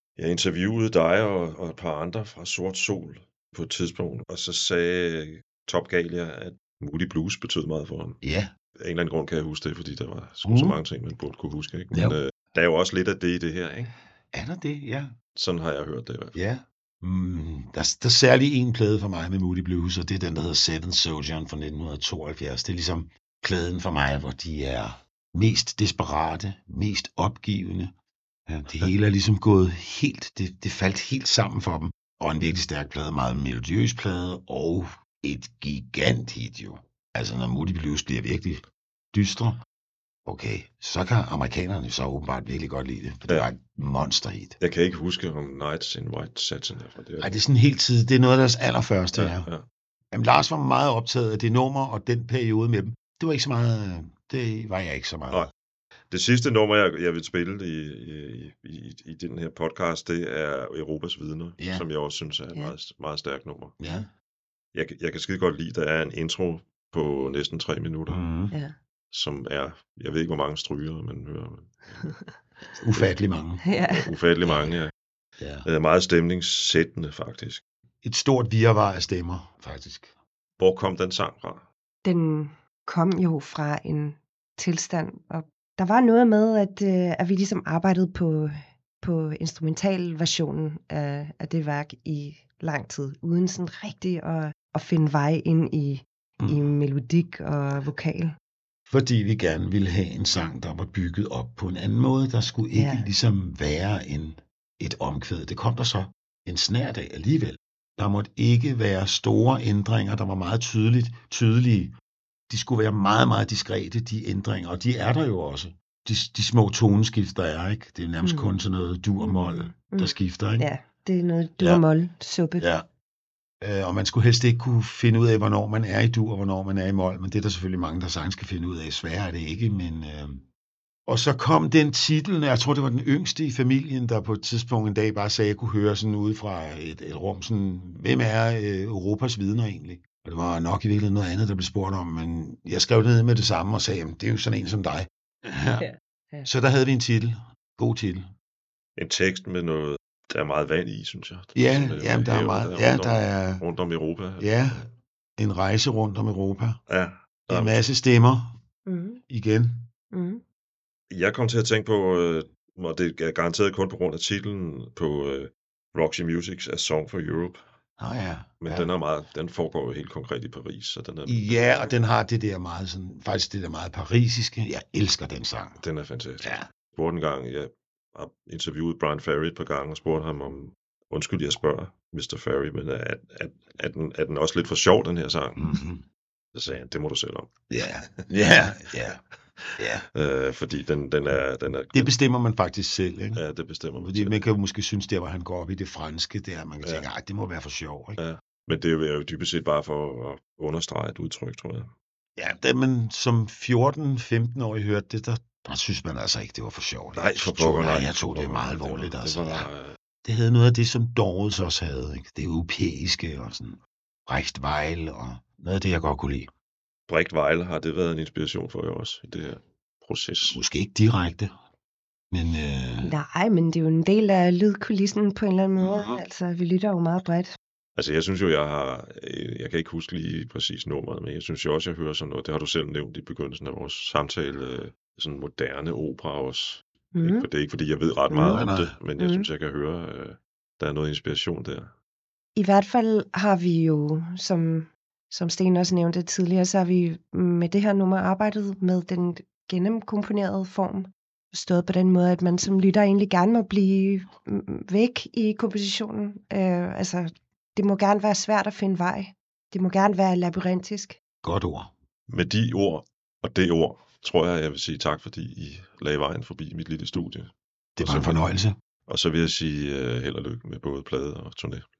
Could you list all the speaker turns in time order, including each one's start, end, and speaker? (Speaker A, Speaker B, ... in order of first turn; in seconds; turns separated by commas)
Speaker A: 0.2-8.2, Speaker B: 8.2-8.5, Speaker A: 8.8-13.9, Speaker B: 10.4-10.8, Speaker B: 11.9-12.2, Speaker B: 14.3-15.1, Speaker A: 15.3-16.4, Speaker B: 16.3-27.9, Speaker B: 28.5-39.6, Speaker B: 40.2-44.6, Speaker A: 44.6-47.4, Speaker B: 47.2-49.5, Speaker A: 49.1-49.6, Speaker B: 50.1-55.5, Speaker A: 56.1-63.8, Speaker B: 61.6-61.9, Speaker B: 63.8-64.1, Speaker A: 64.7-68.2, Speaker B: 68.1-68.6, Speaker A: 69.1-72.1, Speaker B: 72.8-73.6, Speaker C: 73.6-74.1, Speaker A: 73.8-74.9, Speaker B: 74.5-74.8, Speaker B: 75.4-75.7, Speaker A: 75.6-77.6, Speaker B: 78.0-80.1, Speaker A: 80.6-81.7, Speaker C: 82.0-98.3, Speaker B: 96.4-96.7, Speaker B: 98.9-111.9, Speaker C: 102.7-103.1, Speaker B: 112.5-120.7, Speaker C: 118.2-118.6, Speaker C: 119.2-122.7, Speaker B: 121.6-121.8, Speaker B: 122.6-122.8, Speaker B: 123.6-130.5, Speaker B: 131.1-145.9, Speaker C: 145.8-146.5, Speaker B: 146.4-148.3, Speaker A: 149.0-154.8, Speaker B: 151.5-153.6, Speaker B: 154.4-154.8, Speaker B: 155.4-156.8, Speaker A: 156.9-157.8, Speaker B: 157.5-158.6, Speaker C: 158.8-159.2, Speaker B: 159.3-159.9, Speaker C: 160.1-160.4, Speaker A: 161.1-167.6, Speaker B: 168.0-168.9, Speaker A: 168.6-171.9, Speaker B: 171.2-175.8, Speaker A: 175.8-185.8, Speaker B: 176.4-176.7, Speaker B: 185.6-186.0, Speaker A: 186.5-188.3, Speaker B: 187.7-189.2, Speaker A: 189.1-192.1, Speaker B: 189.8-190.0, Speaker B: 191.9-193.4, Speaker A: 193.3-194.4, Speaker B: 194.0-198.2, Speaker A: 198.2-201.9, Speaker B: 202.4-209.7, Speaker A: 207.2-210.0, Speaker B: 210.2-216.5, Speaker A: 217.1-220.6, Speaker B: 220.5-221.5, Speaker B: 222.3-223.1, Speaker C: 223.0-227.5, Speaker B: 225.8-226.2, Speaker A: 227.9-241.9, Speaker C: 237.1-237.5, Speaker C: 238.3-238.6, Speaker B: 238.4-238.9, Speaker C: 239.2-239.5, Speaker C: 242.6-261.2, Speaker B: 261.4-261.9, Speaker A: 262.3-268.5, Speaker B: 268.0-268.8, Speaker A: 269.1-271.9